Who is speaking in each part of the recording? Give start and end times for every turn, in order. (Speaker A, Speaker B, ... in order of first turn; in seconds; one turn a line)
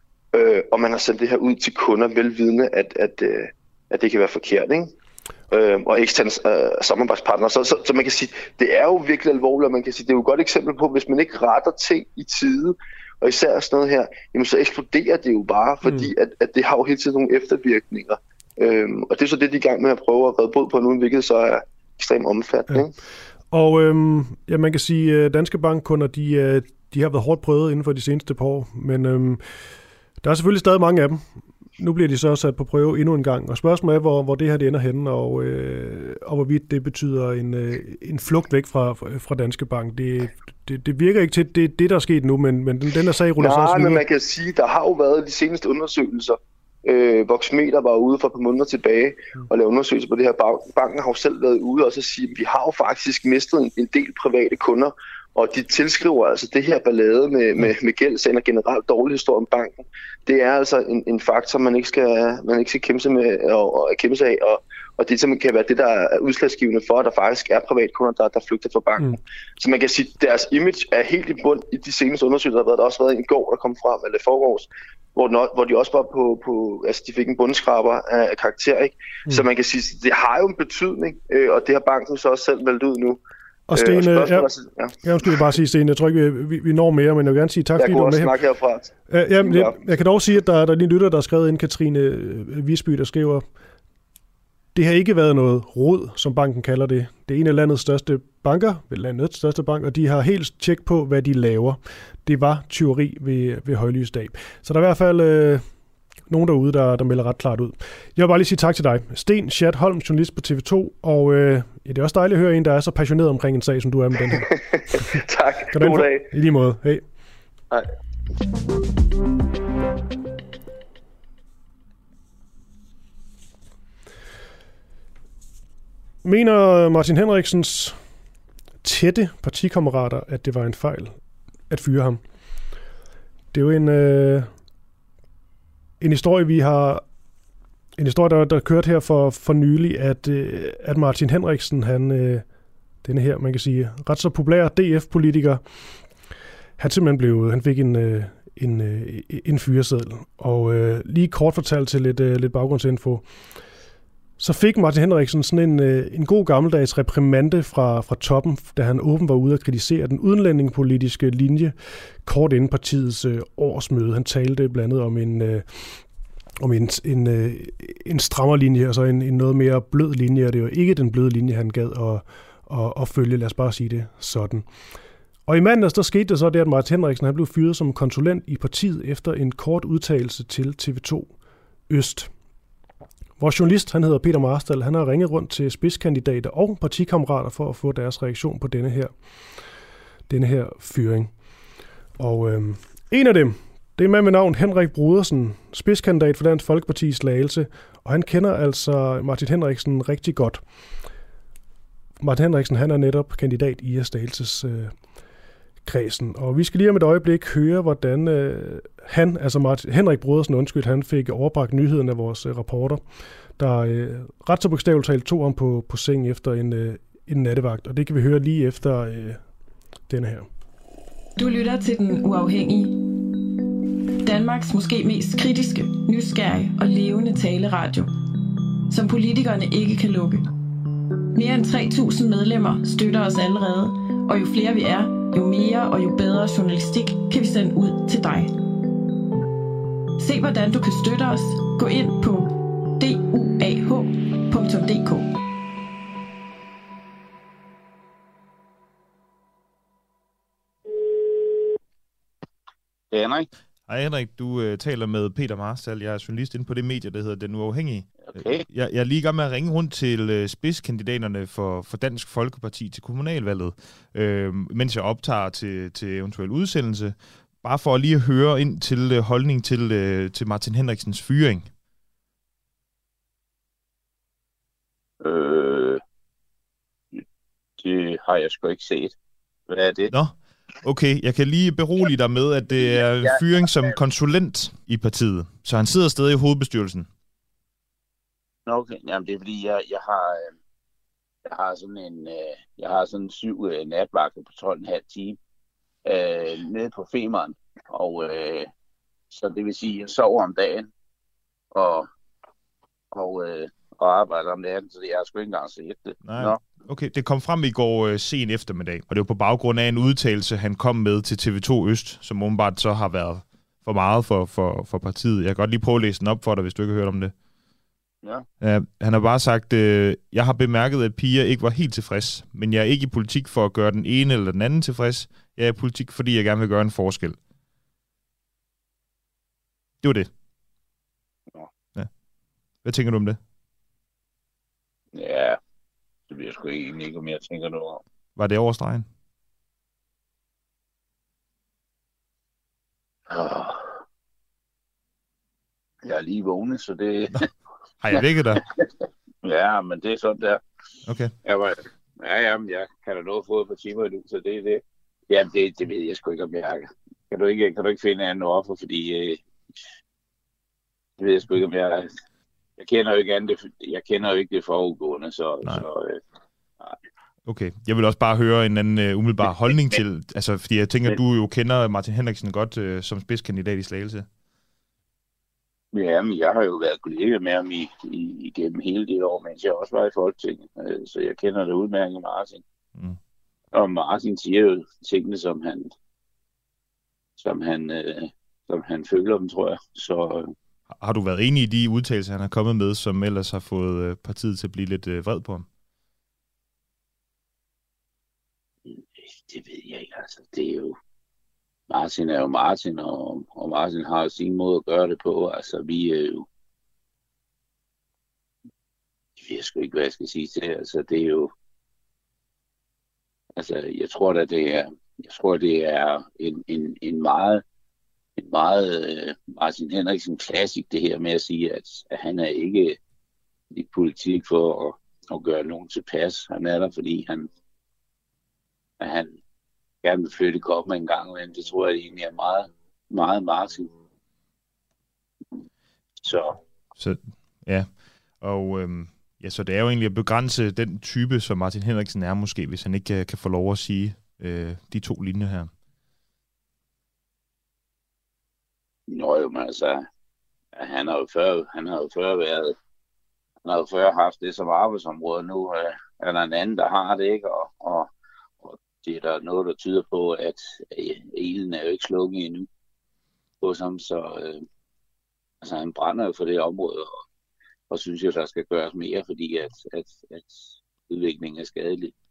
Speaker A: 0.3-4.9
Speaker A: 5.5-22.9
Speaker B: 15.8-16.1
Speaker B: 23.5-29.4
Speaker B: 30.2-31.2
Speaker B: 31.8-44.0
Speaker A: 43.4-83.2
Speaker B: 83.7-84.5
Speaker A: 83.7-85.3
Speaker B: 85.0-88.4
Speaker A: 87.8-89.8
Speaker B: 89.1-93.4
Speaker B: 94.8-105.6
Speaker B: 106.3-114.5
Speaker A: 114.4-116.3
Speaker B: 115.7-117.0
Speaker B: 126.2-128.0
Speaker B: 128.8-131.2
Speaker B: 131.7-132.2
Speaker B: 133.5-134.5
Speaker B: 136.0-137.0
Speaker B: 138.0-142.5
Speaker B: 143.0-145.6
Speaker B: 146.8-153.3
Speaker B: 154.4-166.0
Speaker B: 166.6-174.7
Speaker B: 175.5-181.3
Speaker B: 181.9-182.3
Speaker B: 183.4-189.1
Speaker B: 190.3-191.3
Speaker B: 192.2-200.6
Speaker B: 202.2-205.0
Speaker B: 205.8-213.0
Speaker B: 213.6-219.4
Speaker B: 220.1-220.5
Speaker C: 221.4-223.0
Speaker C: 224.2-228.1
Speaker C: 228.9-230.5
Speaker C: 231.3-238.5
Speaker C: 240.2-245.3
Speaker D: 253.1-253.5
Speaker E: 253.9-271.7
Speaker D: 258.2-258.7
Speaker D: 275.2-276.0
Speaker D: 277.8-279.1
Speaker D: 279.7-280.1
Speaker E: 280.1-287.1
Speaker D: 282.7-284.0
Speaker D: 288.7-290.5
Speaker D: 291.5-295.4
Speaker D: 296.1-298.7
Speaker D: 299.3-300.9
Speaker D: 301.7-302.1
Speaker D: 303.1-306.6
Speaker E: 306.2-317.4
Speaker E: 318.6-327.4
Speaker E: 330.0-330.3
Speaker E: 332.8-333.4
Speaker D: 335.1-335.6
Speaker D: 336.3-338.0
Speaker E: 338.4-339.1
Speaker D: 343.3-343.9
Speaker D: 346.0-347.5
Speaker E: 348.0-348.6
Speaker D: 349.4-350.6
Speaker E: 351.1-351.3
Speaker D: 351.4-359.4
Speaker D: 361.2-362.1
Speaker D: 362.8-366.2
Speaker E: 367.5-374.3
Speaker D: 375.9-382.6
Speaker D: 383.7-385.9
Speaker D: 387.4-390.5
Speaker E: 391.0-395.7
Speaker D: 398.9-400.9
Speaker D: 401.9-406.5
Speaker D: 409.4-411.5
Speaker D: 413.6-417.6
Speaker D: 418.4-423.0
Speaker D: 423.7-427.5
Speaker D: 429.0-429.4
Speaker D: 430.0-433.9
Speaker D: 436.2-436.6
Speaker E: 437.0-445.8
Speaker D: 449.1-450.0
Speaker D: 450.8-452.8
Speaker D: 453.6-458.1
Speaker D: 458.6-462.7
Speaker D: 463.6-464.6
Speaker D: 465.6-467.2
Speaker D: 467.9-472.1